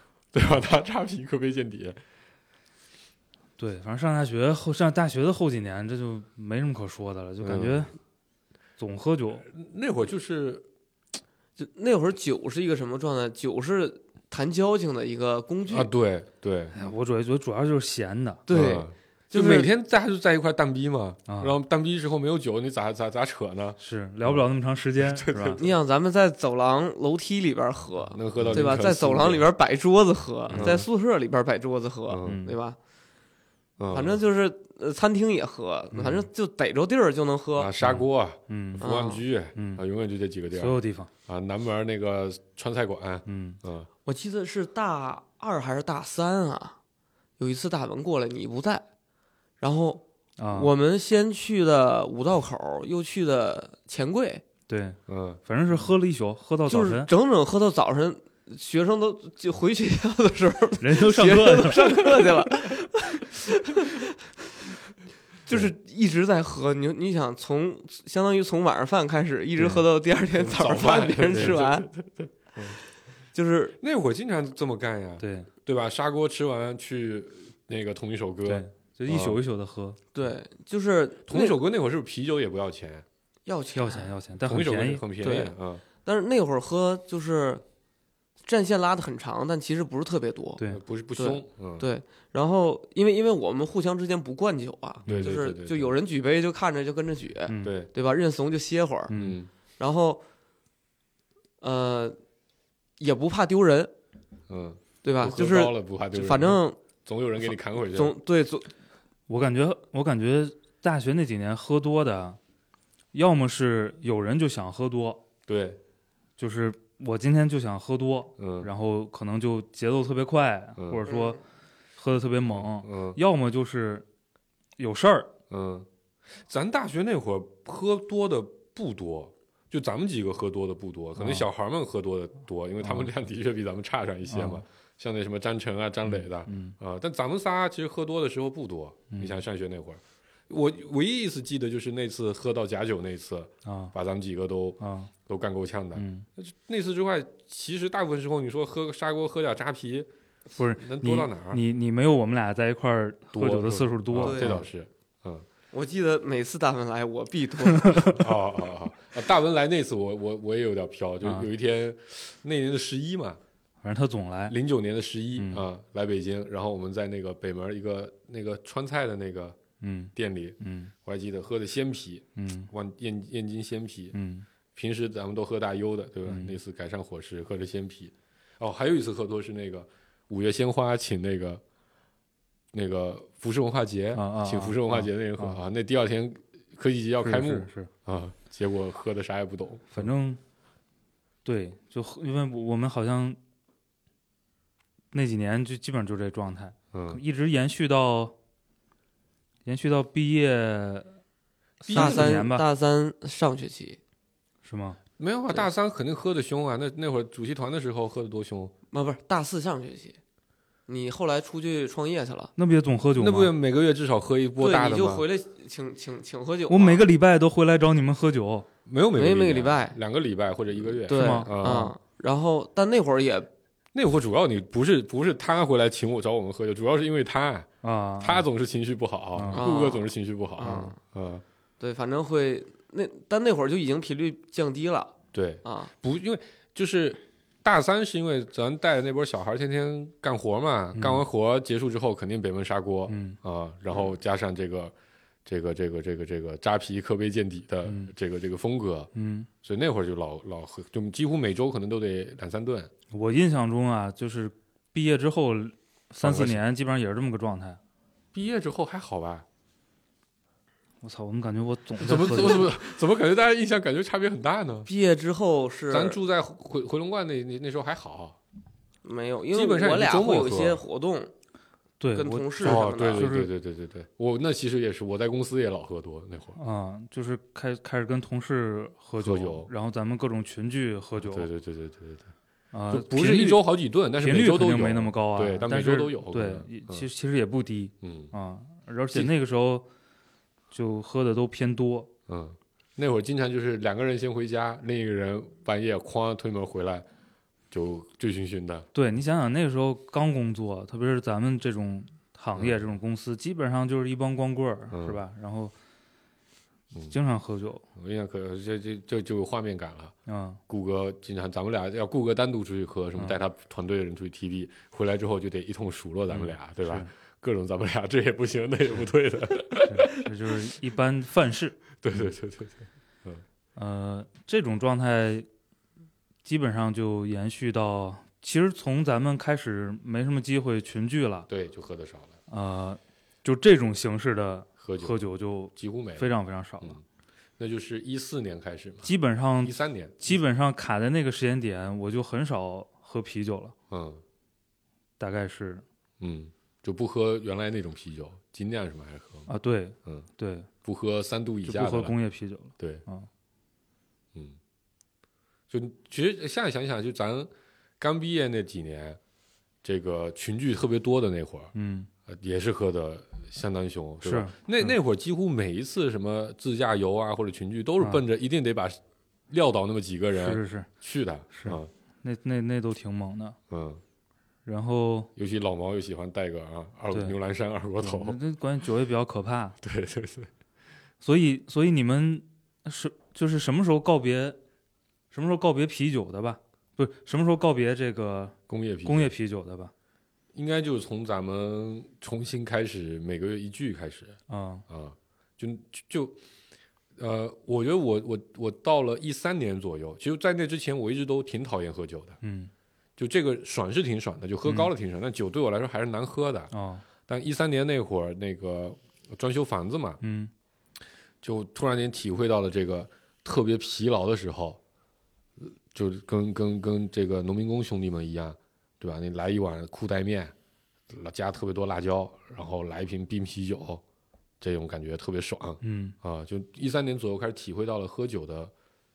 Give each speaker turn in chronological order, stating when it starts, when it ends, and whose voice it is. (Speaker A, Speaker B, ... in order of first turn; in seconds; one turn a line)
Speaker A: 0.3-2.0
Speaker B: 3.6-7.9
Speaker A: 7.4-7.9
Speaker B: 8.8-9.5
Speaker A: 9.5-10.7
Speaker C: 11.6-15.9
Speaker A: 15.7-16.8
Speaker B: 16.7-18.4
Speaker C: 18.5-19.7
Speaker A: 18.5-24.4
Speaker B: 21.3-21.6
Speaker B: 23.8-25.6
Speaker A: 25.0-25.7
Speaker C: 25.6-32.8
Speaker A: 28.1-29.5
Speaker A: 30.5-30.9
Speaker B: 30.5-30.9
Speaker A: 32.1-32.4
Speaker B: 32.2-32.6
Speaker A: 33.8-34.2
Speaker C: 33.9-37.7
Speaker A: 37.6-43.9
Speaker B: 37.8-38.8
Speaker C: 38.8-39.2
Speaker B: 39.5-39.8
Speaker B: 40.5-41.1
Speaker B: 43.3-43.6
Speaker C: 44.0-46.8
Speaker C: 47.4-48.9
Speaker C: 49.6-54.4
Speaker B: 50.4-50.7
Speaker B: 54.7-57.1
Speaker A: 55.1-55.4
Speaker C: 56.7-64.2
Speaker B: 60.8-62.5
Speaker C: 65.5-71.9
Speaker B: 69.6-69.8
Speaker A: 70.3-72.8
Speaker C: 73.3-73.8
Speaker A: 73.8-79.4
Speaker B: 75.2-75.5
Speaker B: 78.5-80.0
Speaker C: 80.1-81.6
Speaker A: 81.3-83.0
Speaker C: 83.5-84.2
Speaker B: 83.8-85.0
Speaker A: 84.5-85.8
Speaker C: 85.2-87.6
Speaker C: 88.4-90.6
Speaker A: 90.7-91.9
Speaker C: 91.2-99.1
Speaker A: 95.1-96.0
Speaker B: 97.5-97.8
Speaker A: 97.6-97.9
Speaker B: 99.1-99.4
Speaker A: 99.1-99.5
Speaker C: 99.8-100.2
Speaker C: 101.6-102.2
Speaker C: 103.0-103.9
Speaker A: 104.5-108.2
Speaker C: 105.0-106.8
Speaker C: 107.8-108.7
Speaker B: 109.3-112.4
Speaker B: 113.1-115.2
Speaker A: 115.5-115.8
Speaker B: 116.4-121.4
Speaker A: 118.4-118.7
Speaker A: 120.8-121.1
Speaker C: 121.1-121.4
Speaker B: 122.0-124.0
Speaker A: 122.5-123.2
Speaker B: 124.8-125.3
Speaker A: 125.5-125.9
Speaker A: 126.4-150.1
Speaker B: 131.2-131.5
Speaker B: 132.8-133.1
Speaker B: 134.3-134.6
Speaker B: 136.1-136.8
Speaker B: 139.1-139.4
Speaker B: 143.7-143.9
Speaker B: 144.8-145.1
Speaker B: 145.9-146.3
Speaker B: 150.6-154.7
Speaker A: 150.7-151.6
Speaker A: 153.3-155.5
Speaker C: 154.2-154.6
Speaker C: 155.7-158.1
Speaker B: 157.8-158.1
Speaker A: 158.1-163.4
Speaker B: 161.2-161.5
Speaker B: 163.8-164.6
Speaker A: 164.5-169.6
Speaker B: 165.4-165.7
Speaker B: 169.8-170.9
Speaker A: 170.2-174.2
Speaker B: 172.4-172.7
Speaker B: 174.1-174.5
Speaker A: 174.8-181.6
Speaker B: 176.3-176.6
Speaker A: 182.7-190.1
Speaker B: 184.2-185.6
Speaker B: 187.2-187.9
Speaker B: 189.9-190.4
Speaker B: 191.4-193.4
Speaker B: 195.1-198.4
Speaker A: 196.9-197.2
Speaker B: 199.7-201.2
Speaker B: 201.8-202.7
Speaker A: 201.8-202.4
Speaker C: 201.9-204.0
Speaker B: 204.6-205.0
Speaker A: 205.2-208.7
Speaker C: 208.9-210.2
Speaker C: 210.9-212.5
Speaker B: 212.6-213.5
Speaker A: 213.2-215.3
Speaker C: 214.6-217.1
Speaker B: 216.7-218.7
Speaker A: 218.9-221.9
Speaker C: 219.2-220.0
Speaker C: 221.1-223.5
Speaker B: 221.1-221.8
Speaker A: 223.9-227.7
Speaker B: 227.8-228.4
Speaker A: 228.2-231.4
Speaker B: 229.4-229.6
Speaker C: 229.5-231.0
Speaker C: 231.8-235.9
Speaker A: 235.3-244.9
Speaker B: 240.9-241.2
Speaker B: 243.1-243.4
Speaker A: 245.5-249.1
Speaker B: 249.2-249.5
Speaker A: 249.6-252.9
Speaker B: 253.1-257.8
Speaker A: 256.2-256.6
Speaker A: 258.3-259.4
Speaker B: 261.0-262.8
Speaker A: 262.0-264.9
Speaker C: 264.9-266.2
Speaker A: 265.9-268.4
Speaker C: 269.0-271.3
Speaker A: 269.5-270.8
Speaker B: 272.0-273.5
Speaker C: 272.1-273.3
Speaker A: 272.6-276.6
Speaker B: 276.6-281.5
Speaker A: 279.2-279.7
Speaker A: 281.2-282.3
Speaker B: 282.7-283.6
Speaker A: 282.9-287.1
Speaker B: 284.2-289.9
Speaker A: 288.0-288.3
Speaker B: 290.7-292.1
Speaker A: 292.3-297.1
Speaker A: 297.7-298.9
Speaker B: 298.9-305.7
Speaker A: 304.9-305.2
Speaker B: 307.1-307.8
Speaker A: 308.0-310.1
Speaker B: 310.3-310.6
Speaker A: 310.7-320.3
Speaker B: 316.3-317.1
Speaker B: 319.8-321.8
Speaker A: 322.0-323.4
Speaker B: 323.8-325.5
Speaker B: 326.4-331.5
Speaker A: 331.5-332.3
Speaker B: 332.5-337.0
Speaker A: 334.8-335.2
Speaker A: 335.8-336.3
Speaker A: 337.6-339.1
Speaker B: 339.0-343.7
Speaker A: 339.6-340.4
Speaker A: 343.9-344.2
Speaker B: 345.2-345.8
Speaker A: 346.2-349.5
Speaker B: 349.5-350.7
Speaker A: 350.8-352.1
Speaker B: 351.6-353.3
Speaker A: 355.7-359.2
Speaker A: 359.8-361.7
Speaker B: 361.7-362.1
Speaker A: 362.3-369.0
Speaker B: 364.2-364.9
Speaker A: 369.5-371.9
Speaker B: 370.4-370.9
Speaker B: 371.5-373.6
Speaker A: 373.7-374.0
Speaker B: 374.6-375.3
Speaker A: 375.4-378.4
Speaker B: 377.1-377.4
Speaker B: 378.0-379.8
Speaker A: 379.8-380.5
Speaker B: 381.2-384.6
Speaker B: 385.3-389.9
Speaker A: 388.7-389.4
Speaker A: 390.5-396.4
Speaker B: 394.5-394.8
Speaker A: 397.2-402.4
Speaker B: 402.4-402.7
Speaker A: 403.2-406.7
Speaker B: 404.6-404.9
Speaker B: 406.7-407.0
Speaker A: 407.3-410.2
Speaker B: 410.2-410.5
Speaker A: 411.4-414.8
Speaker A: 415.6-420.5
Speaker A: 421.1-424.0
Speaker A: 424.6-428.7
Speaker B: 425.8-426.1